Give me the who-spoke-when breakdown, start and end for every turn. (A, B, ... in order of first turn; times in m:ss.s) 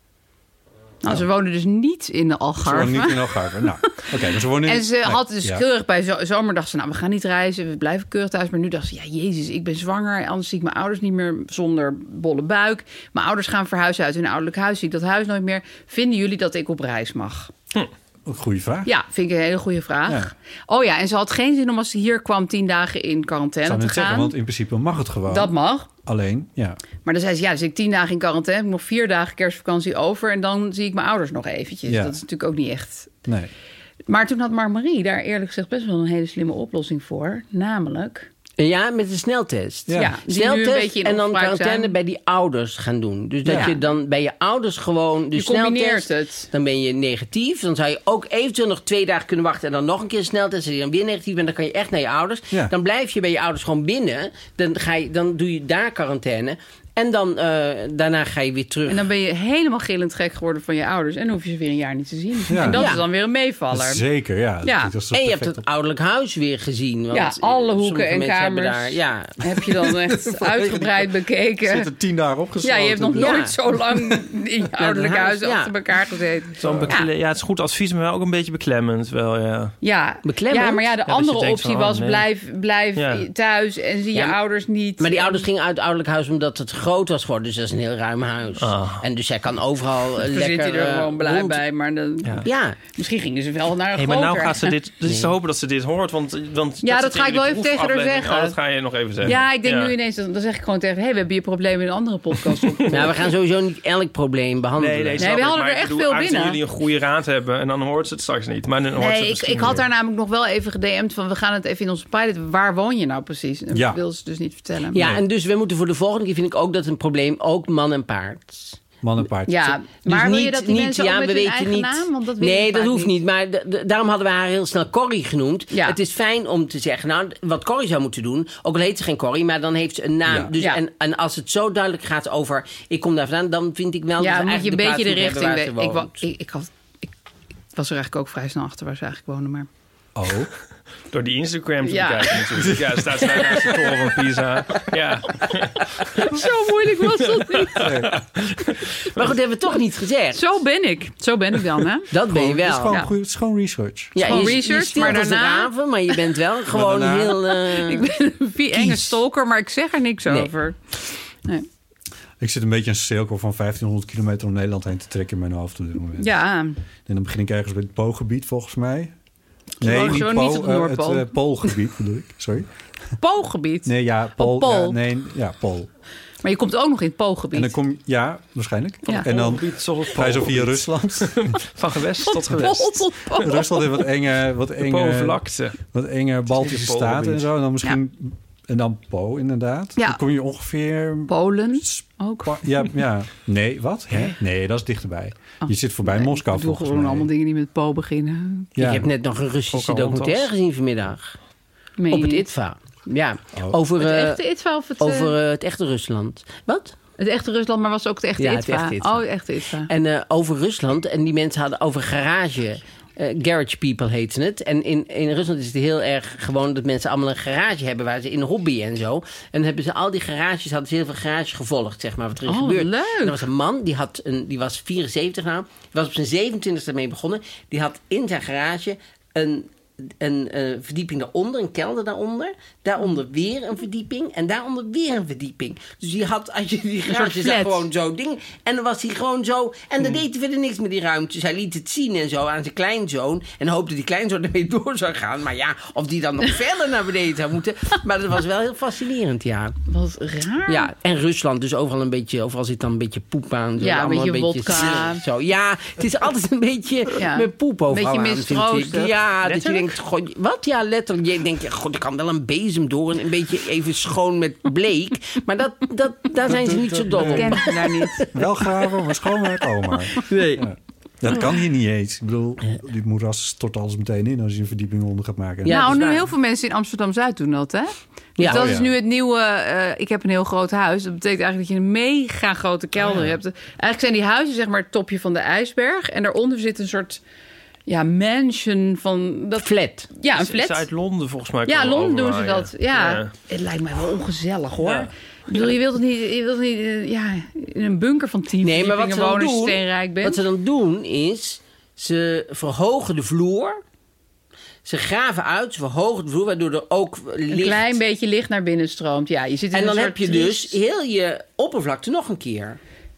0:01.0-0:03.6 A
0:02.6-0:05.6 B
0:04.6-0:17.5 A
0:18.2-0:18.9 B
0:18.8-0:24.4 A
0:20.1-0:20.3 B
0:23.6-0:25.5 B
0:25.3-0:25.9 A
0:26.0-0:26.8 B
0:27.0-0:33.1 A
0:31.9-0:32.2 B
0:33.3-0:33.5 B
0:34.1-0:38.3 A
0:38.6-0:59.0 C
0:39.9-0:40.1 B
0:40.0-0:42.0 A
0:43.4-0:43.7 B
0:43.5-0:43.8 A
0:45.3-0:46.5 A
0:58.9-1:04.0 A
1:02.5-1:03.0 B
1:02.7-1:03.0 C
1:03.7-1:05.6 B
1:04.6-1:04.9 A
1:05.1-1:09.9 C
1:07.1-1:11.9 A
1:11.6-1:13.9 B
1:12.6-1:17.1 A
1:13.2-1:13.5 C
1:14.8-1:15.7 C
1:16.6-1:19.8 D
1:19.8-1:25.5 A
1:20.2-1:20.9 C
1:21.1-1:22.3 D
1:23.0-1:23.3 D
1:25.0-1:31.6 C
1:28.6-1:29.0 D
1:30.2-1:34.7 A
1:32.4-1:32.8 C
1:34.0-1:39.9 D
1:36.8-1:38.6 A
1:39.2-1:43.1 A
1:42.9-1:45.3 C
1:44.8-1:49.8 D
1:45.2-1:46.6 A
1:49.0-1:55.0 A
1:53.7-1:54.0 B
1:54.9-1:58.8 C
1:59.0-1:59.8 B
1:59.5-2:03.1 A
2:00.0-2:16.2 C
2:05.7-2:06.0 A
2:10.2-2:10.5 B
2:14.2-2:17.1 A
2:17.8-2:19.7 A
2:20.2-2:20.5 B
2:21.1-2:26.2 D
2:21.8-2:22.4 A
2:22.6-2:23.3 B
2:26.2-2:27.9 A
2:27.3-2:28.9 D
2:27.8-2:28.3 B
2:29.1-2:30.5 C
2:30.3-2:32.1 A
2:32.1-2:33.0 C
2:32.2-2:34.6 B
2:34.2-2:38.1 C
2:34.2-2:35.7 A
2:36.7-2:37.4 B
2:37.6-2:41.7 A
2:38.7-2:39.2 C
2:42.4-2:46.4 B
2:46.2-2:46.8 A
2:47.1-2:49.1 B
2:49.8-2:51.7 A
2:49.8-2:52.7 B
2:53.2-2:55.0 A
2:53.9-2:55.9 B
2:56.4-2:57.7 A
2:57.5-3:01.6 B
2:59.1-3:03.1 D
3:02.2-3:03.7 A
3:03.4-3:05.4 B
3:04.8-3:05.8 D
3:05.9-3:17.3 B
3:06.6-3:07.5 D
3:11.3-3:12.6 A
3:15.6-3:18.7 A
3:18.8-3:19.1 B
3:18.8-3:21.3 C
3:19.7-3:20.5 D
3:22.0-3:22.4 A
3:22.1-3:24.4 C
3:24.0-3:25.4 A
3:25.0-3:27.0 C
3:27.2-3:29.9 A
3:28.4-3:29.3 C
3:29.9-4:09.8 C
3:42.5-3:43.4 A
3:57.1-3:57.9 A
4:09.9-4:10.9 A
4:10.7-4:28.5 C
4:13.8-4:15.2 A
4:17.1-4:19.2 A
4:19.4-4:20.0 D
4:26.4-4:27.7 B
4:27.2-4:28.3 A
4:28.3-4:36.0 B
4:30.1-4:30.6 C
4:35.6-4:36.3 C
4:35.7-4:47.2 A
4:38.4-4:38.7 C
4:38.4-4:38.9 B
4:47.9-4:50.9 A
4:49.6-4:50.1 C
4:50.4-4:53.3 D
4:51.7-5:00.4 A
4:54.8-4:55.1 D
4:58.6-5:03.8 C
5:04.8-5:08.0 C
5:07.5-5:10.8 A
5:09.7-5:12.8 C